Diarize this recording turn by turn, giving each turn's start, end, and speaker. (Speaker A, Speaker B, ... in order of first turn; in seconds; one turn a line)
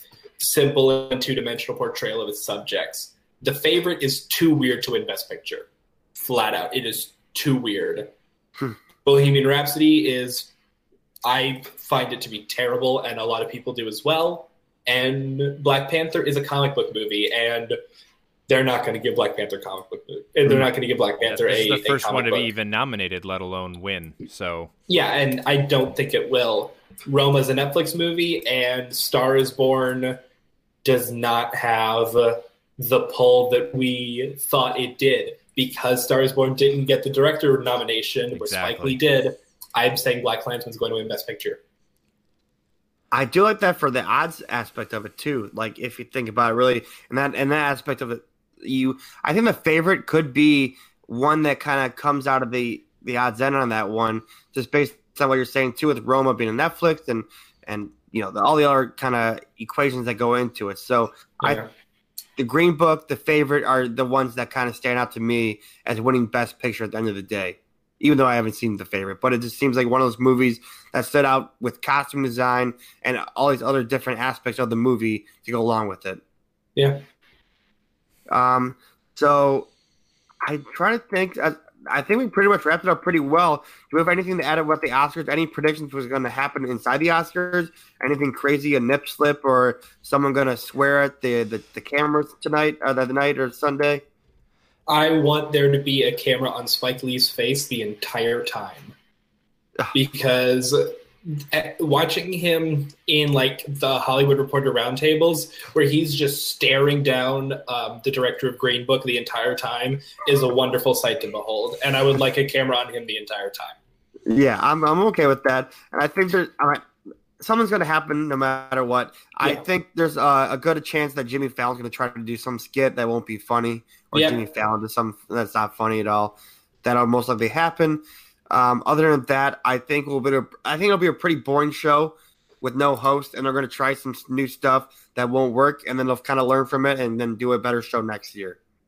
Speaker A: 0.4-5.7
Speaker A: 6.2-8.1
Speaker A: 9.1-10.5
Speaker A: 11.2-17.8
Speaker A: 18.5-22.5
Speaker B: 21.2-24.7
Speaker A: 24.9-30.2
Speaker A: 30.8-41.6
Speaker B: 38.3-39.0
Speaker C: 43.1-61.6
Speaker A: 61.4-61.7
Speaker C: 62.4-76.2
Speaker A: 76.8-77.0
Speaker C: 78.3-79.7
Speaker C: 80.4-94.0
Speaker A: 94.9-98.9
Speaker A: 99.9-101.0
Speaker A: 101.5-113.8
Speaker C: 114.3-116.9
Speaker C: 117.4-138.6
Speaker A: 124.1-124.4